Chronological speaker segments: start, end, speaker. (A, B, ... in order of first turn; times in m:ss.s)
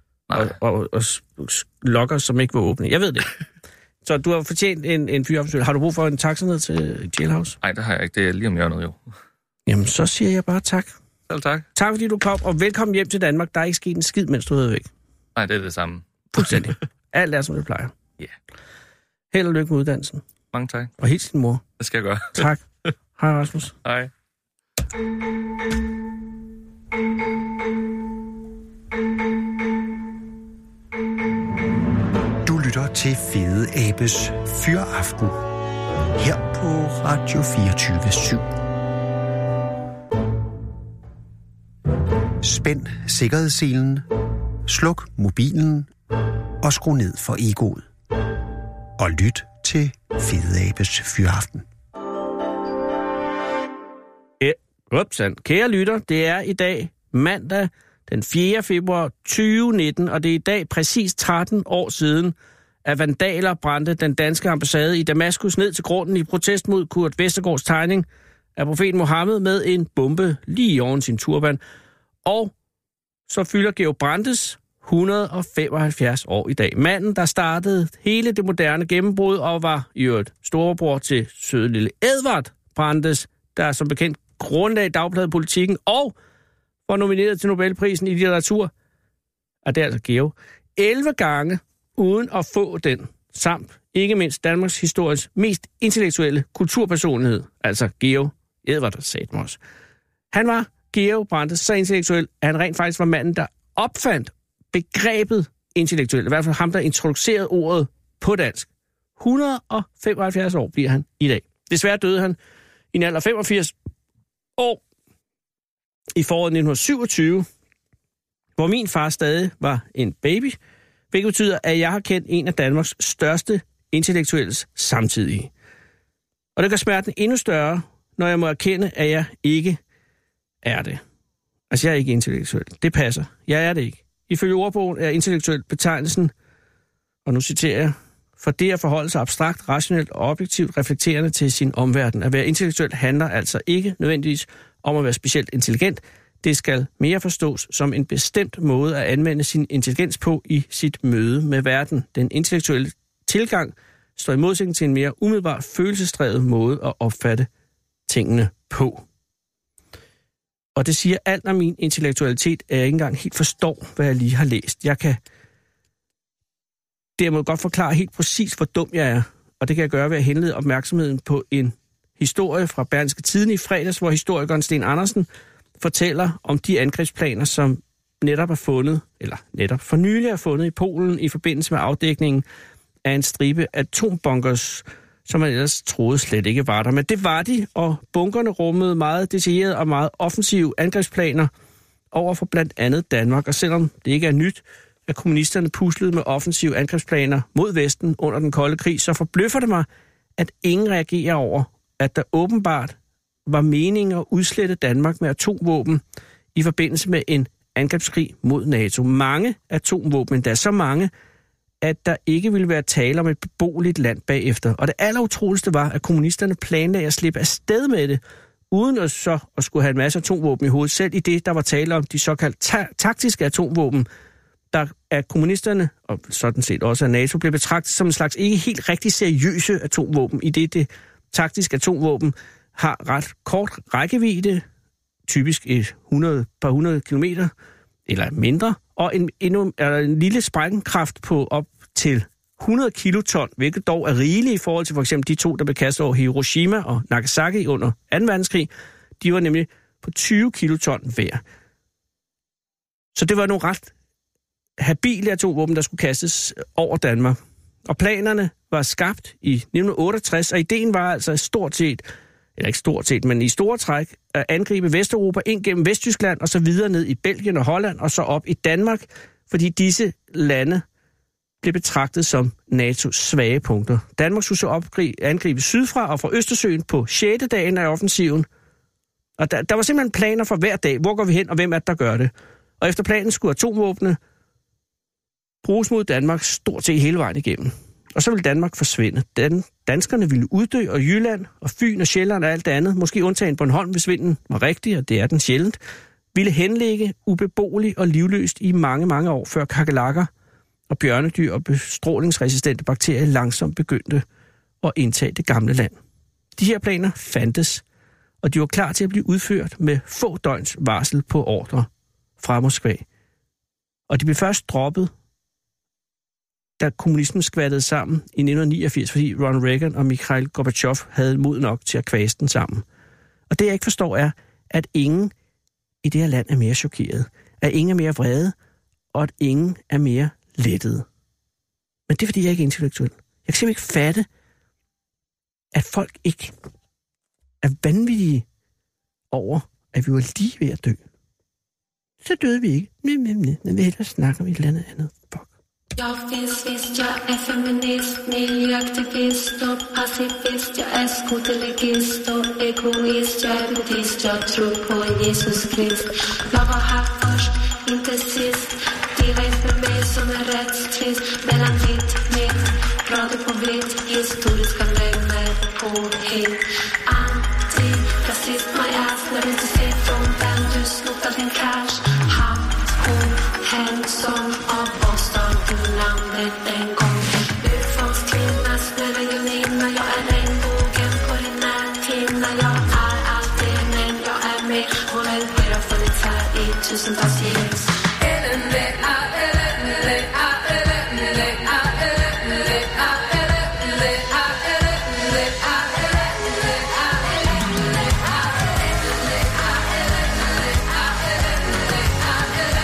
0:00.3-0:00.6 A
0:00.3-0:03.3 B
0:04.0-0:07.6 B
0:07.6-0:09.0 A
0:09.7-0:10.9 B
0:11.3-0:11.7 A
0:11.8-0:14.9 B
0:15.4-0:16.6 A
0:16.3-0:17.9 B
0:19.3-0:20.2 B
0:20.5-0:20.9 A
0:21.0-0:21.6 B
0:21.8-0:22.5 A
0:22.3-0:22.6 B
0:23.2-0:23.8 B
0:23.8-0:24.1 A
0:32.4-0:35.4 C
0:36.2-0:38.5 C
0:42.4-0:44.1 C
0:44.7-0:45.9 C
0:46.6-0:47.9 C
0:49.0-0:51.6 C
0:54.4-1:11.6 B
1:12.2-1:12.5 B
1:13.3-1:26.2 B
1:26.9-1:28.7 B
1:29.6-1:39.6 B
1:40.3-1:52.4 B
1:52.9-1:53.7 B
1:54.6-1:54.8 B
1:56.2-1:57.5 B
1:58.6-2:00.6 B
2:01.1-2:05.5 B
2:06.6-2:09.8 B
2:10.6-2:11.0 B
2:11.7-2:16.3 B
2:17.3-2:37.5 B
2:38.1-2:39.0 B
2:40.8-2:45.2 B
2:47.2-2:55.3 B
2:55.8-3:02.4 B
3:03.0-3:11.5 B
3:12.1-3:26.0 B
3:26.6-3:31.1 B
3:31.8-3:44.1 B
3:44.7-3:54.6 B
3:55.3-3:57.5 B
3:58.1-4:11.4 B
4:13.2-4:13.9 B
4:14.8-4:30.8 B
4:31.6-4:38.5 B
4:39.4-4:44.2 B
4:45.6-4:55.8 B
4:56.3-5:00.3 B
5:00.9-5:04.2 B
5:04.8-5:06.0 B
5:06.6-5:07.8 B
5:08.4-5:11.9 B
5:12.4-5:13.0 B
5:14.1-5:15.1 B
5:16.8-5:22.8 B
5:23.5-5:25.3 B
5:26.0-5:28.6 B
5:29.1-5:31.1 B
5:32.1-5:34.3 B
5:35.7-5:36.5 B
5:37.6-5:38.5 B
5:39.3-5:41.0 B
5:42.2-5:45.5 B
5:46.0-6:36.2 D